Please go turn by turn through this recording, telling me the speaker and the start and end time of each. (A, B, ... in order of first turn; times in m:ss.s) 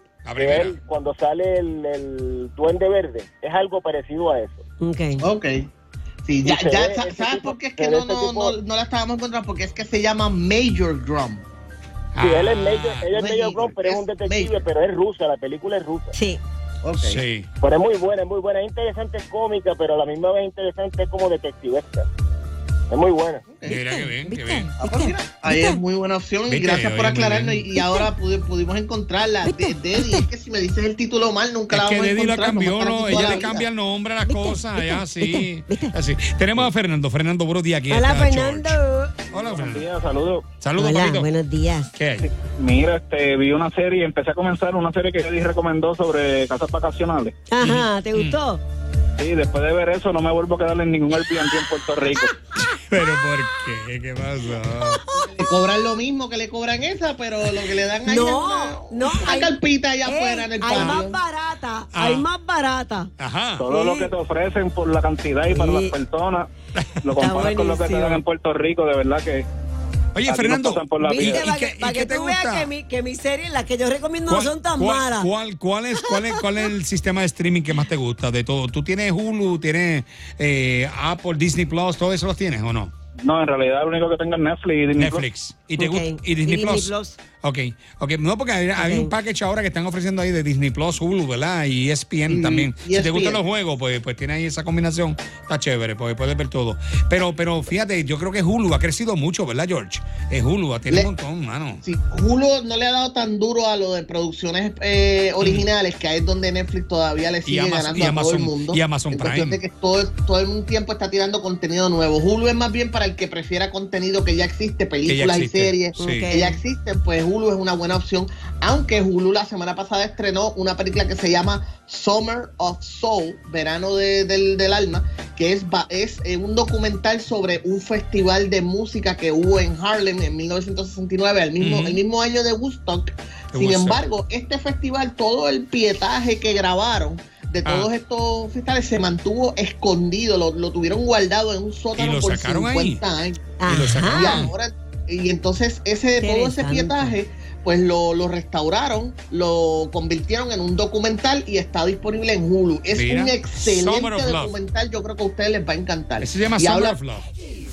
0:00.2-0:00.8 A
0:00.4-0:04.7 B
0:04.8-0:05.3 C
0:05.2-0:05.7 D
0:06.2-0:11.4 D
0:06.4-0:08.6 B
0:12.2-0:13.1 A
0:12.2-0:16.2 B
0:13.1-0:14.6 D
0:16.8-0:17.2 D
0:17.0-0:17.5 A
0:17.6-0:22.1 B
0:22.9-0:23.5 B
0:23.5-0:23.8 D
0:23.6-0:24.7 A
0:23.7-0:25.8 C
0:24.8-0:33.7 D
0:26.5-0:27.7 A
0:27.7-0:28.1 C
0:29.5-0:30.3 C
0:31.7-0:38.8 A
0:33.1-0:33.5 C
0:34.3-0:35.9 C
0:37.9-0:39.2 C
0:39.3-0:39.9 A
0:39.4-0:40.4 E
0:40.6-0:41.3 A
0:40.8-0:41.9 C
0:41.9-0:42.3 A
0:42.2-0:47.3 E
0:47.5-0:48.6 C
0:47.6-0:48.4 A
0:49.2-0:52.4 E
0:52.6-0:55.1 A
0:55.1-1:01.2 D
0:58.1-0:59.5 C
1:00.0-1:03.1 C
1:00.7-1:01.0 A
1:01.9-1:02.3 A
1:03.2-1:03.7 A
1:03.6-1:06.5 E
1:03.7-1:04.1 C
1:05.5-1:06.0 C
1:06.8-1:07.5 A
1:07.0-1:09.5 E
1:07.2-1:08.2 C
1:10.1-1:12.7 A
1:10.2-1:11.5 E
1:11.0-1:15.3 C
1:14.3-1:22.9 A
1:16.0-1:16.3 C
1:23.2-1:25.2 E
1:25.0-1:41.8 A
1:25.8-1:27.2 C
1:28.8-1:29.1 C
1:32.3-1:33.4 D
1:41.8-2:23.5 D
1:45.4-1:45.7 A
1:47.5-1:49.6 A
1:55.1-1:56.3 A
1:56.0-1:56.6 C
2:11.6-2:12.0 A
2:13.5-2:14.0 A
2:22.0-2:23.0 A
2:23.6-2:24.4 C
2:23.7-2:24.5 A
2:24.1-2:37.0 D
2:26.2-2:27.1 C
2:32.9-2:34.6 A
2:36.2-2:37.3 A